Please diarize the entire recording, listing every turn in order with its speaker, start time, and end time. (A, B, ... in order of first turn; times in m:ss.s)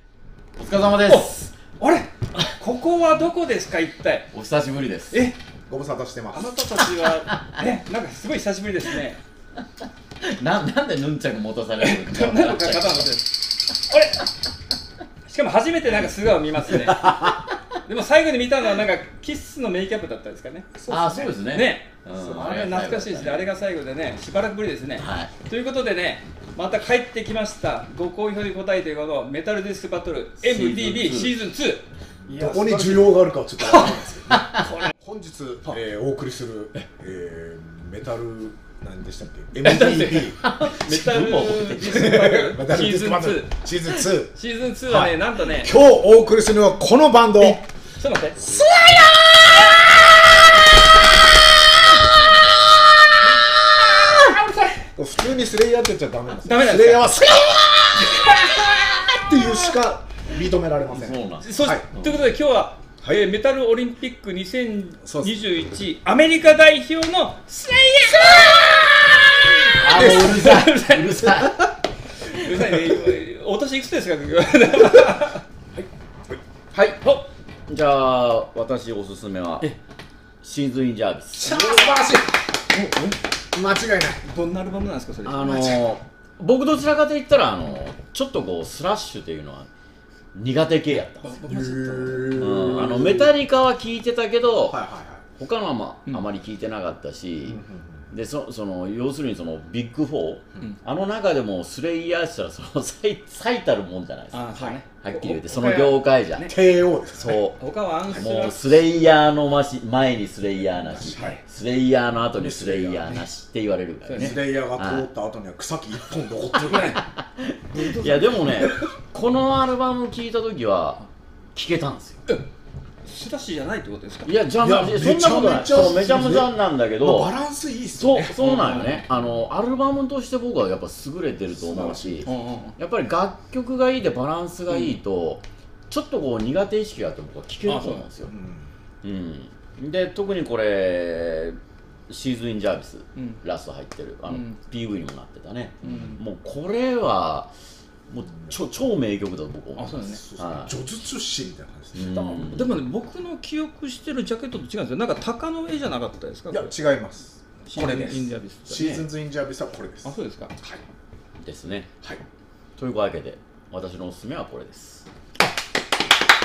0:00.6-0:01.5 A
0:01.1-0:04.3 B
0:04.3-0:05.3 A
0:05.1-0:05.4 B
0:05.7-0:06.6 C
0:06.3-0:09.2 B
0:10.2-0:13.1 A
0:11.8-0:14.3 B
0:15.3-0:20.7 B
0:16.9-0:17.5 A
0:20.7-0:21.4 C
0:20.9-0:23.5 A
0:21.5-0:33.2 B
0:25.0-0:25.3 A
0:30.4-0:31.4 A
0:32.3-0:40.4 C
0:33.7-0:34.7 A
0:39.6-0:45.7 B
0:40.4-0:42.3 A
0:41.8-0:44.3 C
0:44.9-0:47.6 C
0:47.4-0:49.4 B
0:54.2-0:58.4 C
0:56.4-0:59.7 B
0:59.2-1:01.9 C
1:00.9-1:01.4 A
1:01.4-1:11.4 B
1:02.0-1:02.3 A
1:05.0-1:05.3 C
1:09.7-1:11.7 A
1:10.0-1:10.3 C
1:12.3-1:15.4 B
1:16.7-1:19.7 A
1:20.4-1:21.6 A
1:21.4-1:22.3 C
1:21.4-1:23.2 B
1:23.5-1:24.2 C
1:24.2-1:25.7 B
1:25.2-1:29.7 A
1:25.4-1:25.8 C
1:30.3-1:31.4 A
1:31.0-1:32.8 B
1:31.4-1:33.4 C
1:32.3-1:34.8 A
1:34.6-1:35.2 C
1:35.4-1:46.6 A
1:37.4-1:38.1 C
1:44.3-1:46.5 B
1:44.6-1:45.4 C
1:46.4-1:47.4 C
1:47.2-1:55.1 A
1:47.6-1:48.7 B
1:50.8-1:51.4 C
1:52.4-1:53.2 C
1:54.0-1:54.4 B
1:54.2-1:57.0 C
1:56.5-2:02.2 A
1:56.6-1:57.0 B
1:57.7-1:58.7 B
2:03.1-2:04.4 B
2:04.2-2:07.3 A
2:04.6-2:08.4 C
2:07.9-2:18.3 A
2:08.4-2:09.0 B
2:11.5-2:12.5 C
2:12.2-2:12.8 B
2:14.7-2:15.0 B
2:17.7-2:18.1 B
2:18.3-2:18.7 C
2:19.0-2:21.6 A
2:22.1-2:27.5 A
2:23.2-2:23.4 B
2:24.3-2:24.6 B
2:25.8-2:26.2 B
2:28.1-2:30.8 A
2:29.8-2:30.2 B
2:30.0-2:32.8 C
2:31.9-2:32.8 A
2:32.5-2:36.7 B
2:36.5-2:40.8 C
2:37.6-2:38.8 B
2:38.7-2:39.1 A
2:40.0-2:40.5 B
2:41.4-2:41.9 A
2:42.8-2:45.1 A